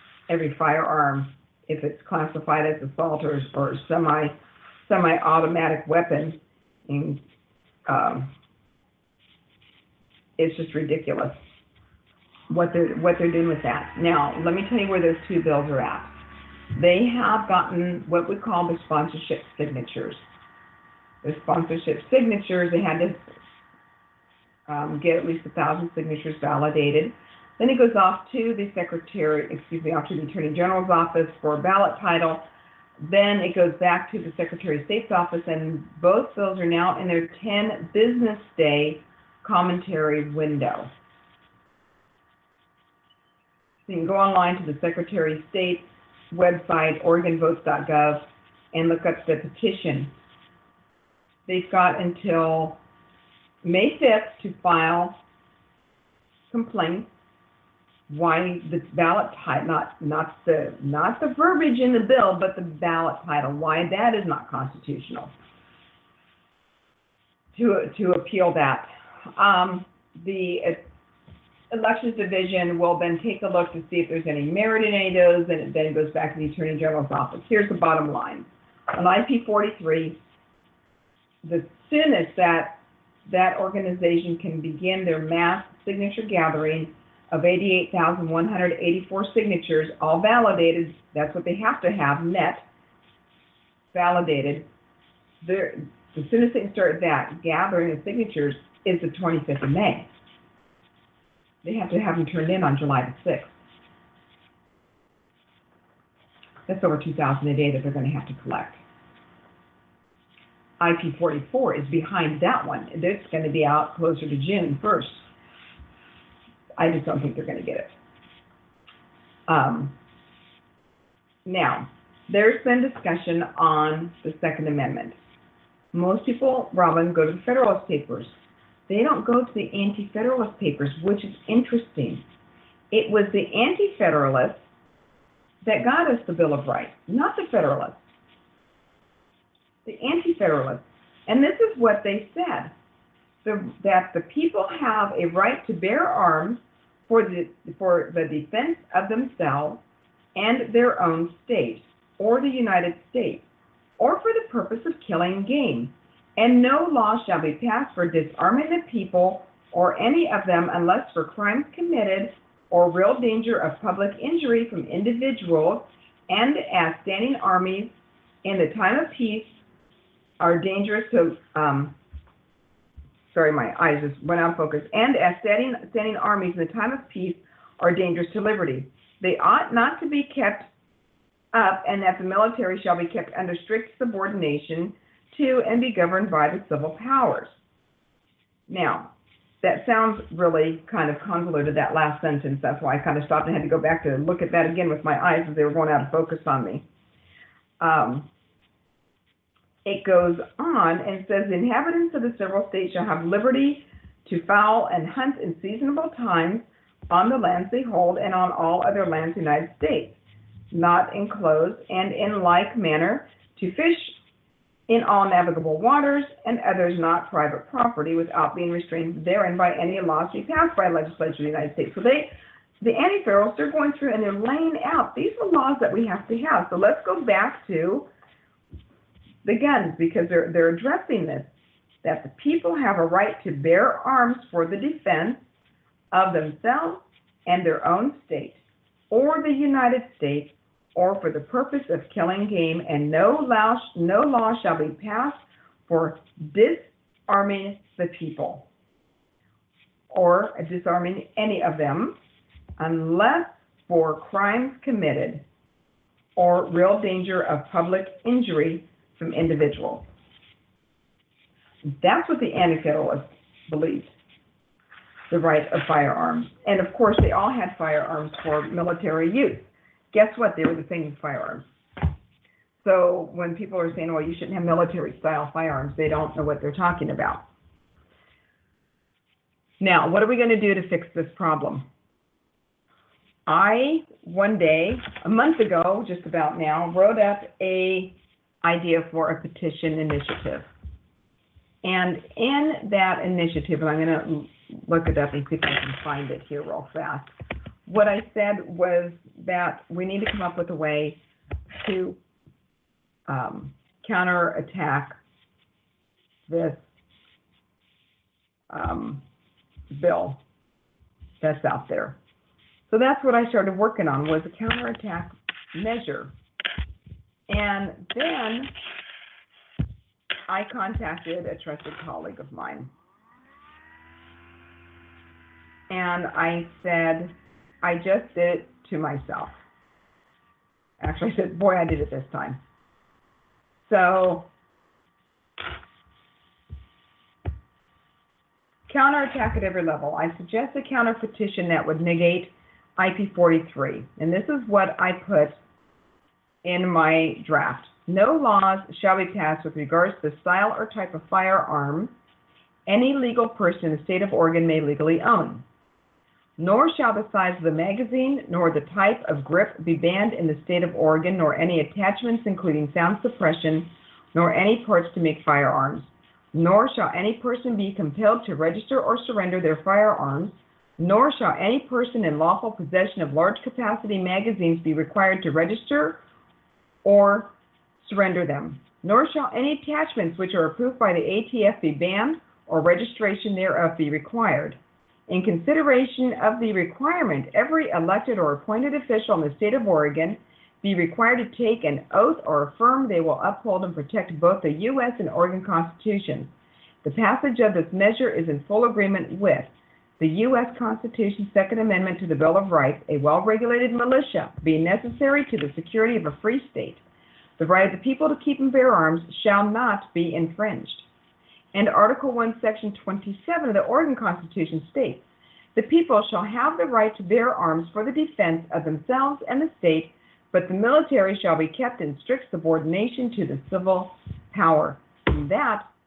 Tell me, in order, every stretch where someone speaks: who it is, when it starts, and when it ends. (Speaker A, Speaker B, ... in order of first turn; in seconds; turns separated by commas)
Speaker A: 0.3-7.2, Speaker A: 7.9-8.3, Speaker A: 10.4-11.4, Speaker A: 12.5-16.1, Speaker A: 16.7-20.2, Speaker A: 21.2-23.2, Speaker A: 24.7-32.5, Speaker A: 33.0-40.9, Speaker A: 43.9-50.1, Speaker A: 51.5-52.8, Speaker A: 53.6-55.2, Speaker A: 56.5-57.1, Speaker A: 58.1-65.3, Speaker A: 67.5-70.9, Speaker A: 71.7-80.2, Speaker A: 81.4-92.6, Speaker A: 93.9-94.7, Speaker A: 95.4-100.1, Speaker A: 101.6-103.5, Speaker A: 106.7-108.8, Speaker A: 110.8-115.2, Speaker A: 116.8-117.9, Speaker A: 119.5-120.0, Speaker A: 121.4-125.2, Speaker A: 125.9-128.3, Speaker A: 128.9-132.2, Speaker A: 132.9-134.6, Speaker A: 135.6-138.0, Speaker A: 139.8-142.7, Speaker A: 143.4-149.8, Speaker A: 150.3-153.4, Speaker A: 154.0-169.6, Speaker A: 170.4-171.9, Speaker A: 173.3-180.7, Speaker A: 181.5-187.5, Speaker A: 188.7-196.8, Speaker A: 197.8-198.3, Speaker A: 199.8-210.2, Speaker A: 210.7-214.2, Speaker A: 214.9-228.1, Speaker A: 229.4-231.5, Speaker A: 232.0-235.4, Speaker A: 236.1-248.7, Speaker A: 250.1-252.2, Speaker A: 252.8-255.4, Speaker A: 256.4-260.1, Speaker A: 261.9-264.1, Speaker A: 265.3-271.6, Speaker A: 272.8-277.4, Speaker A: 279.8-281.9, Speaker A: 283.4-290.6, Speaker A: 291.8-297.3, Speaker A: 297.9-301.2, Speaker A: 301.8-302.2, Speaker A: 303.3-305.2, Speaker A: 306.5-306.8, Speaker A: 308.7-309.2, Speaker A: 309.9-310.4, Speaker A: 311.4-312.2, Speaker A: 312.9-316.3, Speaker A: 317.5-318.7, Speaker A: 320.5-322.9, Speaker A: 325.9-329.6, Speaker A: 331.0-332.6, Speaker A: 333.9-334.5, Speaker A: 338.9-345.6, Speaker A: 346.6-352.1, Speaker A: 352.9-355.6, Speaker A: 356.6-376.2, Speaker A: 377.0-396.5, Speaker A: 397.0-399.7, Speaker A: 400.2-407.0, Speaker A: 407.6-411.1, Speaker A: 411.7-415.2, Speaker A: 415.7-425.9